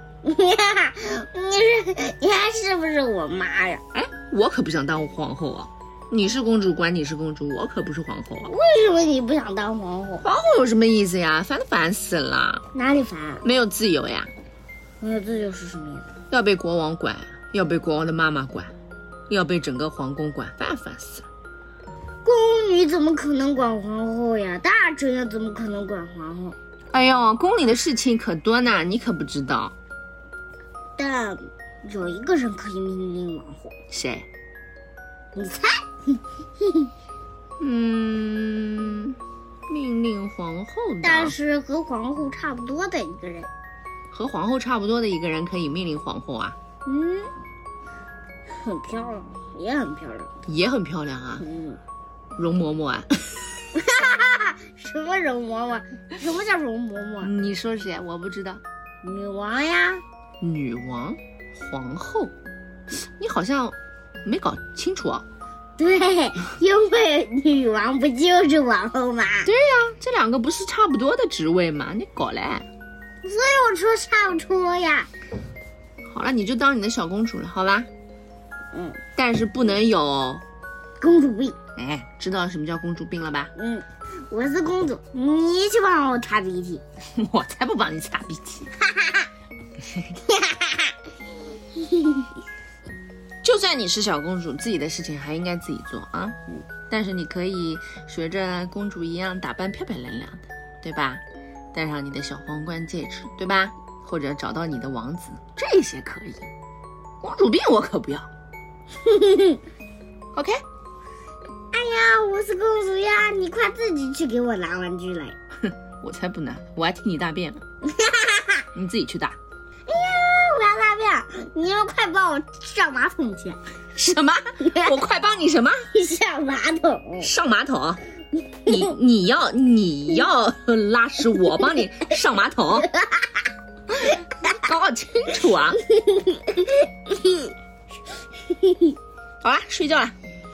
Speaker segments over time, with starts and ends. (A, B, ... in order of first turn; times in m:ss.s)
0:00.2-0:03.8 A
0:03.9-0:08.5 B
0:08.4-0:10.3 A
0:10.2-0:12.6 B
0:12.7-0:13.5 A
0:13.4-0:14.3 B
0:15.0-0:16.2 A
0:16.2-0:18.7 B
0:19.3-0:21.2 B
0:22.2-0:26.6 A
0:26.9-0:29.7 B
0:31.0-0:33.8 A
0:33.9-0:34.2 B
0:35.3-0:36.9 A
0:37.6-0:41.4 B
0:41.0-0:43.5 A
0:44.1-0:46.6 B
0:46.8-0:47.3 A
0:48.5-0:50.3 A
0:50.4-0:51.4 B
0:51.4-0:51.8 A
0:52.4-0:53.4 B
0:53.7-0:57.3 A
0:57.2-0:58.6 B
0:59.0-1:00.0 A
1:00.4-1:02.3 B
1:03.2-1:05.2 B
1:05.8-1:09.5 A
1:09.4-1:12.7 B
1:13.2-1:15.1 A
1:16.0-1:17.9 B
1:18.7-1:19.0 A
1:19.1-1:20.4 B
1:21.0-1:21.6 A
1:21.7-1:23.5 B
1:23.6-1:26.8 A
1:27.0-1:28.7 B
1:28.8-1:29.3 A
1:30.2-1:30.9 A
1:31.7-1:32.3 A
1:33.4-1:46.5 B
1:47.2-1:48.3 B
1:49.0-1:49.6 A
1:50.3-1:50.6 B
1:51.7-1:55.4 A
1:55.6-1:57.6 B
1:57.8-1:58.6 A
1:58.7-1:59.4 B
1:59.9-2:03.6 A
2:03.9-2:05.9 B
2:04.6-2:05.0 A
2:05.9-2:07.3 A
2:07.2-2:08.0 B
2:08.6-2:12.9 B
2:12.8-2:13.5 A
2:14.1-2:14.5 A
2:14.4-2:15.8 B
2:15.8-2:17.5 A
2:18.4-2:19.0 A
2:19.4-2:20.1 B